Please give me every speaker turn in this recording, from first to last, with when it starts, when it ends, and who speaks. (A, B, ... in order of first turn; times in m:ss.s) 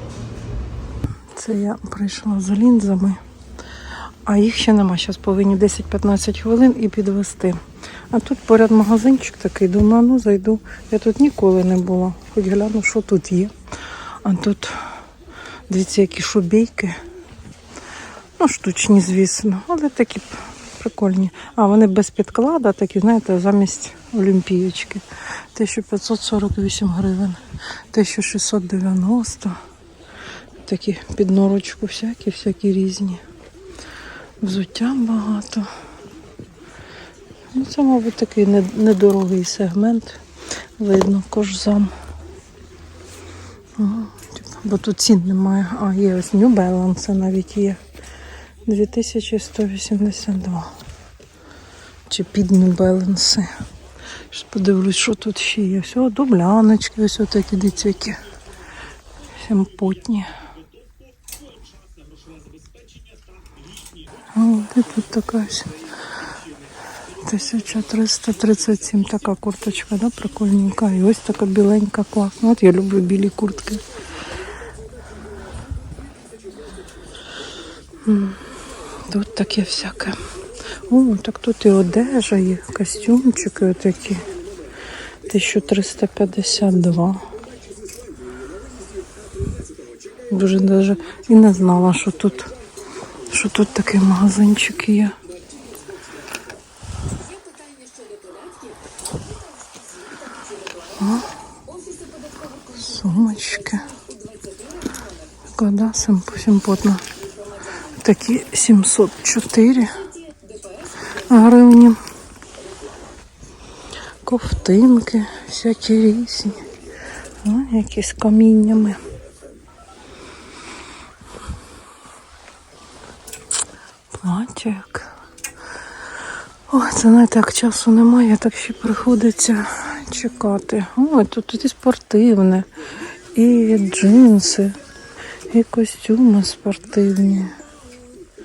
0:01.4-0:03.2 A
0:04.3-0:07.6 A
0:08.1-0:13.5 A
0:14.2-0:14.8 A
0:15.7-0:17.0 A
0:18.4-0:27.4 A
0:27.9-0:29.6 A
0:30.6-0:33.2 A
0:34.4-0:35.7 A
0:37.5-0:40.2 A
0:40.8-0:41.9 A
0:43.8-0:47.8 A
0:48.7-0:50.7 A
0:52.1-0:53.5 A
0:54.3-0:58.2 A
0:59.4-1:00.3 A
1:04.4-1:05.8 A
1:07.3-1:13.8 A
1:18.1-1:18.4 A
1:19.1-1:20.2 A
1:20.9-1:24.2 A
1:25.3-1:27.2 A
1:30.3-1:32.5 A
1:33.3-1:35.2 A
1:41.0-1:41.3 A
1:42.7-1:43.8 A
1:45.6-1:47.0 A
1:48.0-1:50.0 A
1:51.3-1:52.0 A
1:54.2-1:56.6 A
1:57.4-1:59.0 A
2:04.2-2:05.1 A
2:06.7-2:12.7 A
2:13.4-2:14.8 A
2:15.5-2:17.5 A